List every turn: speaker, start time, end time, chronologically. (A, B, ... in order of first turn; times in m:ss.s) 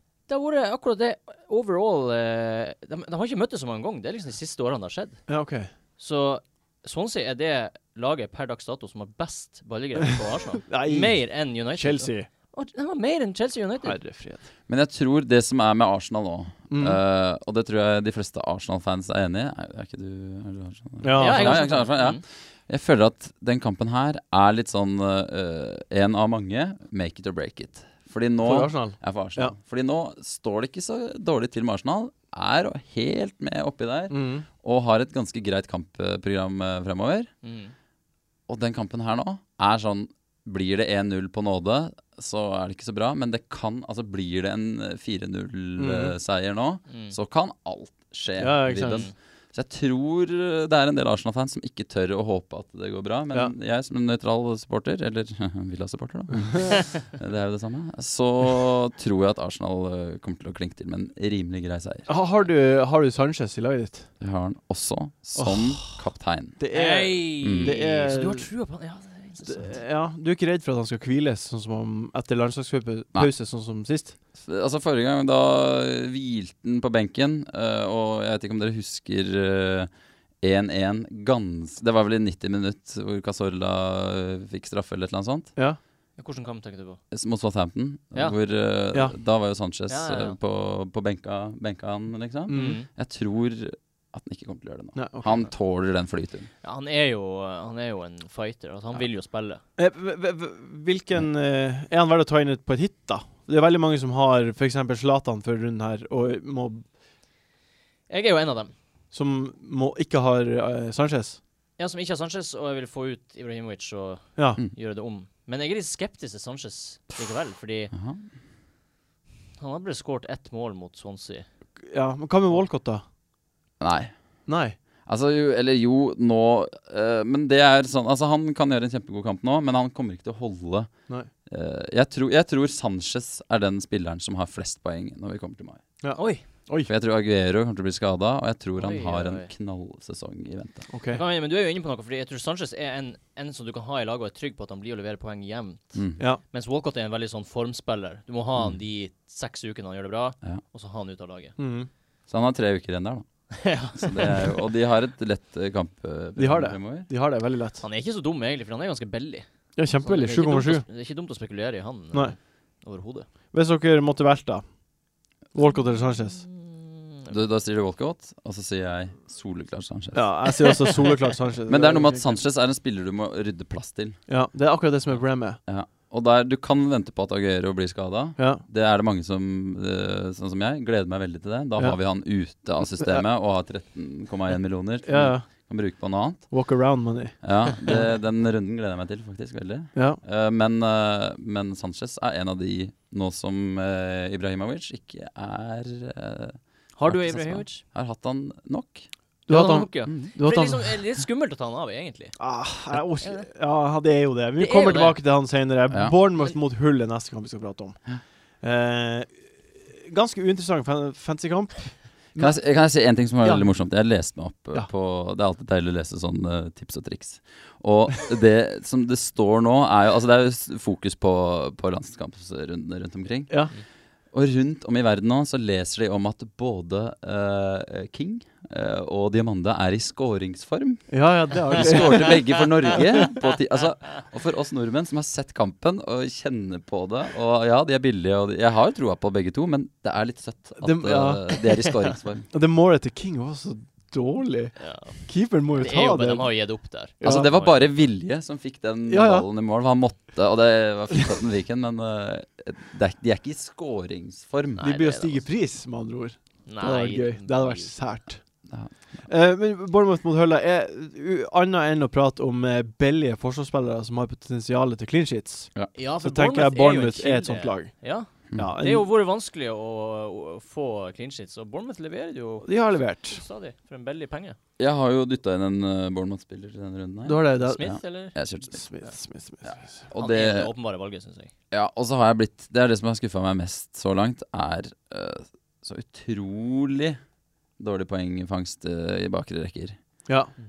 0:00.3-0:05.3 A
0:05.3-0:05.7 B
0:06.0-0:14.0 A
0:10.7-0:12.3 B
0:13.8-0:14.4 B
0:14.7-0:37.3 C
0:16.7-0:17.0 B
0:21.0-0:21.7 B
0:21.2-0:22.2 A
0:28.4-0:29.6 B
0:34.1-0:34.5 B
0:37.4-0:37.7 A
0:38.5-1:02.1 C
0:45.8-0:46.1 B
0:46.9-0:47.2 A
0:48.4-0:49.1 B
1:02.1-1:04.1 B
1:04.2-1:06.6 C
1:05.4-1:06.0 B
1:06.6-1:08.5 B
1:06.7-1:09.8 A
1:07.4-1:07.8 C
1:09.4-1:14.2 B
1:14.4-1:19.9 C
1:20.4-1:25.5 C
1:26.2-1:27.0 A
1:27.1-1:36.5 C
1:29.9-1:30.4 A
1:32.5-1:32.8 B
1:32.5-1:32.9 A
1:34.9-1:35.5 B
1:36.6-1:39.6 A
1:39.8-1:46.8 B
1:48.1-1:48.7 A
1:49.1-1:51.4 B
1:51.8-1:57.9 A
1:54.4-1:54.6 B
1:57.9-1:58.2 C
1:59.6-2:01.5 A
2:01.8-2:03.0 B
2:03.8-2:04.1 C
2:04.5-2:04.8 B
2:05.1-2:15.8 C
2:16.0-2:16.9 B
2:16.2-2:16.4 A
2:16.9-2:20.9 C
2:18.8-2:19.5 A
2:20.9-2:21.2 B
2:21.1-2:31.6 A
2:26.0-2:26.2 C
2:31.6-2:31.9 B
2:32.3-2:37.1 C
2:33.6-2:34.6 A
2:36.4-2:37.8 B
2:37.8-2:39.5 A
2:39.8-2:40.8 B
2:40.0-2:43.3 A
2:43.5-2:44.7 B
2:45.5-2:46.4 B
2:45.6-2:47.3 A
2:47.3-2:50.5 C
2:50.1-2:52.4 B
2:51.7-2:54.2 C
2:54.3-2:55.6 B
2:55.6-3:06.5 C
2:58.4-2:58.6 B
3:05.0-3:05.5 B
3:06.5-3:08.1 B
3:07.4-3:19.1 C
3:10.0-3:10.2 B
3:17.0-3:17.8 A
3:19.5-3:20.9 B
3:19.5-3:22.4 A
3:20.1-3:20.3 C
3:22.4-3:28.0 B
3:22.9-3:23.5 A
3:24.6-3:25.2 A
3:28.6-3:32.6 B
3:32.4-3:43.7 C
3:33.4-3:33.7 B
3:43.5-3:43.7 B
3:44.3-4:02.5 C
3:51.1-3:53.3 B
4:00.8-4:01.7 B
4:02.5-4:06.5 B
4:04.8-4:07.9 A
4:07.2-4:07.5 B
4:07.2-4:14.9 C
4:09.1-4:09.5 B
4:14.8-4:15.4 A
4:14.8-4:18.5 B
4:16.7-4:17.9 A
4:18.7-4:19.2 C
4:19.3-4:29.1 B
4:26.0-4:34.6 A
4:32.6-4:33.4 B
4:34.8-4:38.8 C
4:37.2-4:38.0 B
4:37.6-4:38.4 A
4:38.7-4:40.0 B
4:39.6-4:40.7 C
4:40.2-4:41.5 A
4:41.7-4:47.2 C
4:47.8-4:50.0 C